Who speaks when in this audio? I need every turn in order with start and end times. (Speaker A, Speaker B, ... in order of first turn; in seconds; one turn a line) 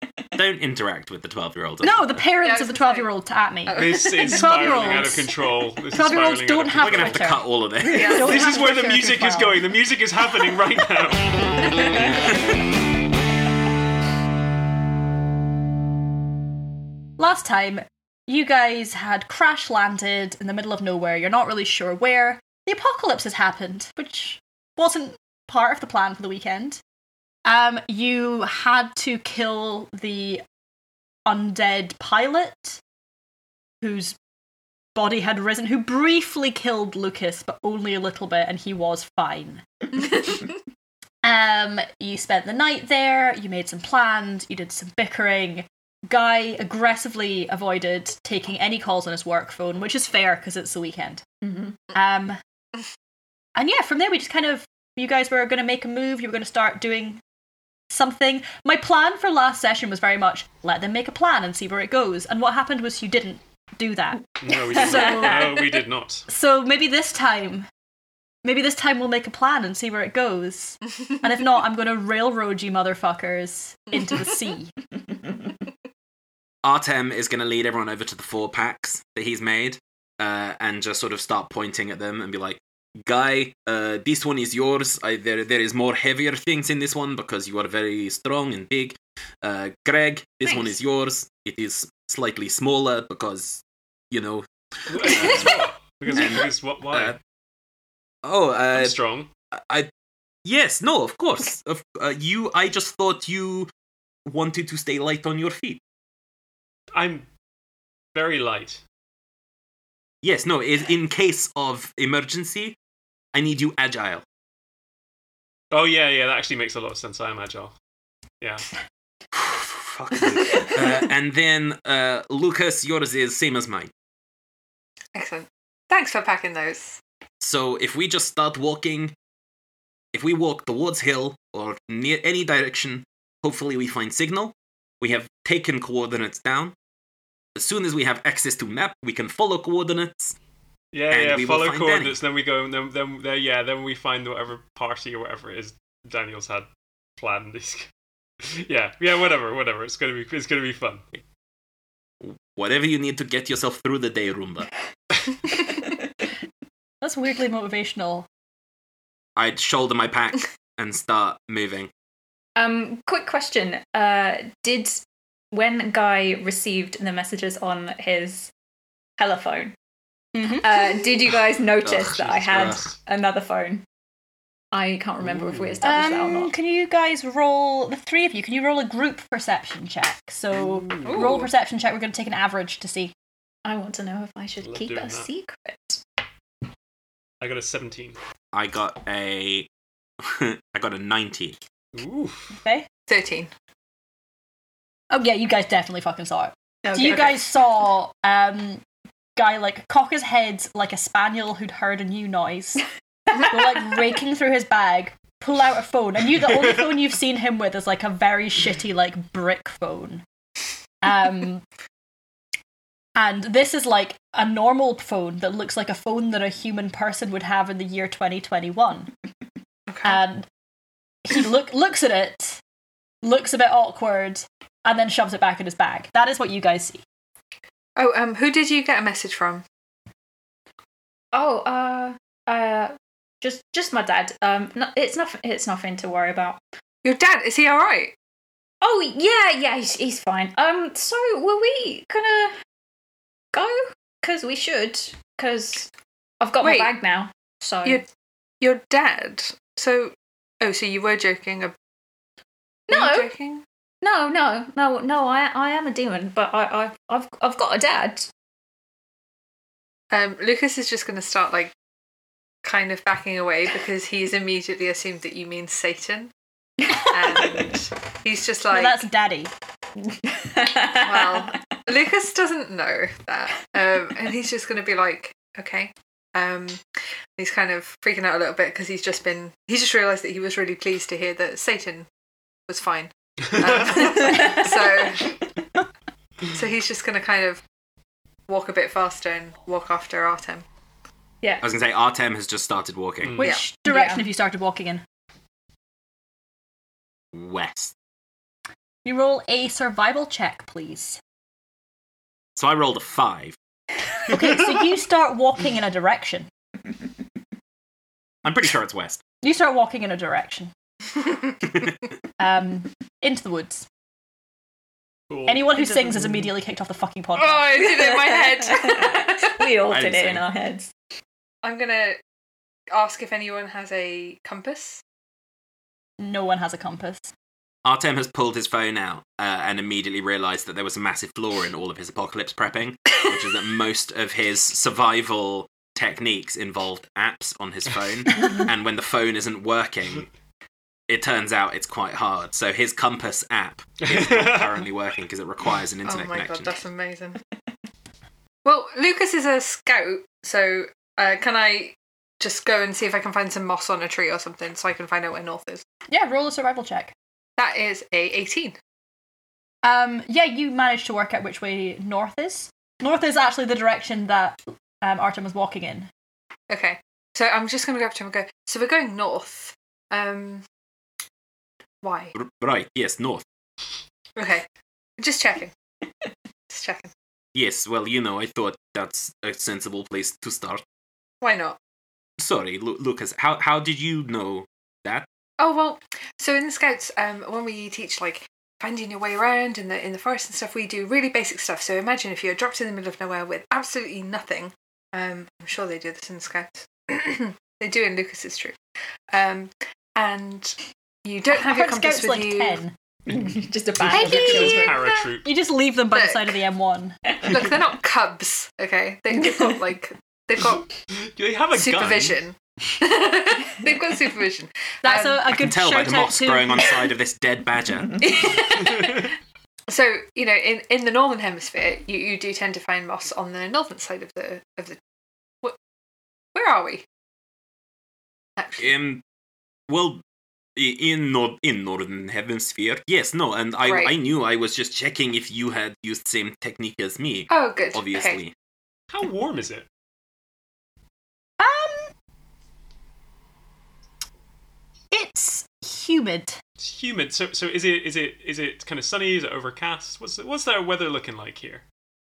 Speaker A: 0.3-2.2
Speaker B: 1.8-5.3
Speaker C: 2.4-3.1
Speaker C: 3.7-5.2
Speaker D: 3.8-7.2
Speaker B: 5.9-9.7
Speaker A: 6.8-8.3
Speaker C: 7.9-8.7
Speaker D: 8.1-12.1
Speaker B: 17.2-26.8
Speaker B: 27.4-30.4
Speaker B: 31.3-32.8
Speaker B: 33.8-34.2
Speaker B: 35.0-40.3
Speaker B: 41.2-51.2
Speaker E: 51.4-51.8
Speaker B: 51.9-52.4
Speaker B: 53.6-57.2
Speaker B: 57.9-65.7
Speaker D: 64.4-66.3
Speaker B: 66.3-67.7
Speaker B: 68.4-74.7
Speaker A: 76.6-95.6
Speaker E: 90.5-90.8
Speaker D: 94.9-97.2
Speaker A: 96.1-97.2
Speaker A: 98.2-99.0
Speaker D: 98.7-99.3
Speaker A: 99.5-99.9
Speaker A: 100.5-103.7
Speaker A: 104.3-105.8
Speaker D: 106.9-107.3
Speaker D: 108.1-108.8
Speaker A: 110.2-112.8
Speaker A: 113.3-114.2
Speaker D: 115.7-117.8
Speaker D: 118.4-118.7
Speaker A: 119.3-123.9
Speaker C: 125.2-127.0
Speaker A: 127.4-129.1
Speaker A: 130.1-136.7
Speaker A: 137.6-140.3
Speaker D: 140.9-147.9
Speaker A: 141.1-142.2
Speaker D: 148.4-151.1
Speaker A: 152.2-154.7
Speaker B: 157.0-158.3
Speaker A: 159.4-161.9
Speaker E: 162.6-168.5
Speaker E: 169.2-169.8
Speaker B: 170.3-170.7
Speaker E: 170.6-173.8
Speaker A: 171.8-172.8
Speaker D: 172.2-172.9
Speaker E: 174.7-176.5
Speaker B: 175.8-183.1
Speaker D: 180.7-181.4
Speaker C: 181.1-181.5
Speaker E: 183.7-186.0
Speaker D: 184.6-185.3
Speaker D: 187.4-188.2
Speaker A: 188.5-189.7
Speaker A: 190.2-191.6
Speaker D: 191.9-192.6
Speaker B: 192.6-192.9
Speaker C: 193.1-193.5
Speaker B: 195.1-198.8
Speaker E: 196.9-197.3
Speaker B: 199.4-202.8
Speaker B: 203.3-210.2
Speaker B: 211.0-211.6
Speaker B: 213.2-219.1
Speaker C: 219.9-220.2
Speaker B: 220.0-220.5
Speaker B: 221.2-222.6
Speaker B: 223.2-227.0
Speaker C: 228.0-229.6
Speaker E: 231.3-236.6
Speaker C: 237.0-238.2
Speaker E: 238.8-242.6
Speaker E: 243.5-248.0
Speaker C: 246.6-246.9
Speaker C: 248.6-251.7
Speaker E: 252.9-253.3
Speaker C: 252.9-253.6
Speaker E: 254.0-258.3
Speaker C: 260.1-261.7
Speaker C: 262.6-266.3
Speaker C: 266.9-269.1
Speaker B: 268.7-269.5
Speaker E: 270.3-271.5
Speaker C: 270.9-276.9
Speaker C: 277.4-282.1
Speaker C: 282.7-285.3
Speaker E: 284.2-284.7
Speaker C: 286.5-287.6
Speaker C: 288.5-290.6
Speaker A: 291.6-293.4
Speaker D: 293.2-293.5
Speaker B: 293.4-295.0
Speaker C: 293.4-293.7
Speaker E: 293.9-294.2
Speaker A: 297.3-297.9
Speaker B: 299.1-301.2
Speaker A: 302.6-303.6
Speaker B: 304.3-306.5
Speaker A: 308.4-309.2
Speaker B: 309.4-310.7
Speaker B: 312.4-313.9
Speaker D: 315.3-316.4
Speaker B: 315.5-317.9
Speaker C: 317.4-319.6
Speaker E: 318.0-320.9
Speaker A: 319.9-320.5
Speaker C: 321.6-322.2
Speaker C: 322.9-325.0
Speaker B: 326.2-327.3
Speaker A: 327.9-340.3
Speaker A: 341.1-346.8
Speaker D: 344.0-344.8
Speaker C: 346.1-347.4
Speaker C: 348.6-355.9
Speaker B: 356.1-357.1
Speaker C: 357.6-358.8
Speaker B: 359.8-366.1
Speaker C: 366.7-370.6
Speaker C: 372.0-372.4
Speaker A: 372.4-373.4
Speaker C: 374.4-374.7
Speaker C: 375.2-375.7
Speaker C: 376.7-377.1
Speaker A: 377.5-380.8
Speaker C: 381.4-381.8
Speaker A: 382.4-385.3
Speaker C: 385.6-398.8
Speaker C: 399.3-402.8
Speaker B: 401.5-402.9
Speaker D: 403.3-405.5
Speaker E: 403.3-405.0
Speaker B: 404.1-407.2
Speaker C: 404.9-405.2
Speaker C: 406.1-406.6
Speaker C: 407.4-410.9
Speaker D: 411.1-412.4
Speaker C: 411.7-415.4
Speaker B: 415.0-416.9
Speaker A: 415.5-418.2
Speaker C: 418.2-419.3
Speaker C: 419.9-425.0
Speaker C: 426.5-427.1
Speaker C: 428.6-428.9
Speaker A: 428.8-429.2
Speaker A: 429.9-430.2
Speaker A: 430.8-438.5
Speaker C: 433.8-434.1
Speaker C: 437.5-438.4
Speaker D: 439.1-439.9
Speaker B: 441.6-442.1
Speaker B: 445.1-446.6
Speaker D: 446.8-451.8